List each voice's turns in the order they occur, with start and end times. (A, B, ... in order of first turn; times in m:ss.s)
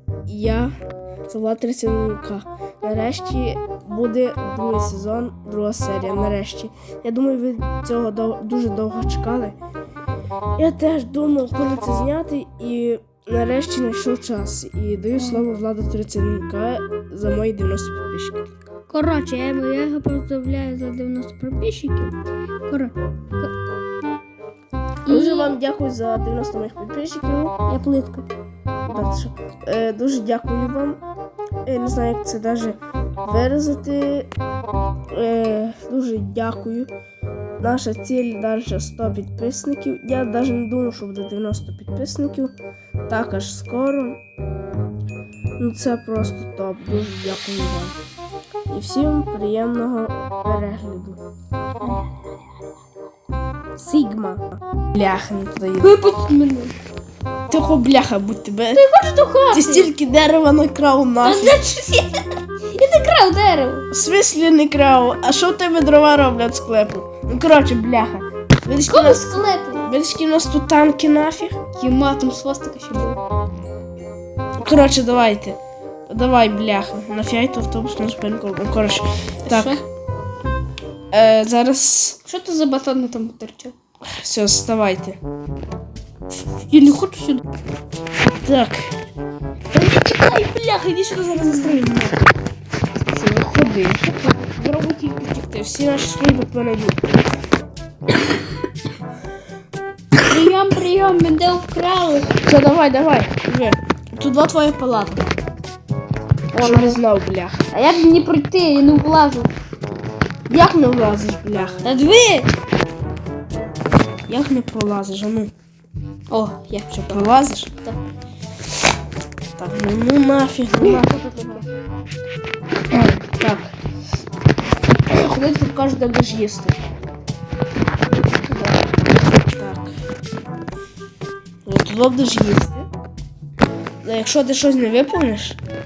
0:00.3-0:00.7 A
0:01.3-0:09.6 A
0:10.6-0:18.5 A
0:18.9-0:22.1 B
0:22.7-0:23.5 B
0:25.0-0:25.5 B
0:25.1-0:27.6 A
0:27.7-0:28.3 B
0:28.9-0:31.0 A
0:31.6-0:34.3 A
0:35.1-0:36.9 A
0:37.6-0:42.5 A
0:43.1-0:44.2 A
0:45.6-0:48.0 A
0:48.7-0:51.2 A
0:51.8-0:52.2 B
0:53.8-0:55.9 A
0:55.8-0:56.7 B
0:57.5-0:58.8 A
0:58.7-0:59.9 B
0:59.5-1:01.8 A
1:01.2-1:03.9 B
1:03.9-1:11.6 A
1:08.9-1:09.9 B
1:11.8-1:13.2 B
1:14.6-1:15.6 A
1:16.1-1:19.8 A
1:19.4-1:19.8 B
1:21.1-1:22.2 A
1:22.2-1:23.7 B
1:24.0-1:25.2 A
1:26.6-1:27.4 B
1:28.4-1:28.9 A
1:29.7-1:32.2 A
1:33.1-1:37.0 A
1:40.2-1:42.3 B
1:42.4-1:45.2 A
1:46.5-1:47.0 B
1:46.6-1:47.6 A
1:47.7-1:49.5 B
1:50.5-1:51.8 A
1:51.8-1:52.5 B
1:54.3-1:55.5 A
1:56.3-1:57.2 B
1:56.9-1:57.7 A
1:59.6-2:01.1 A
2:00.8-2:01.6 B
2:02.9-2:03.7 A
2:05.1-2:06.8 A
2:09.5-2:09.9 A
2:11.6-2:12.9 A
2:14.0-2:15.6 A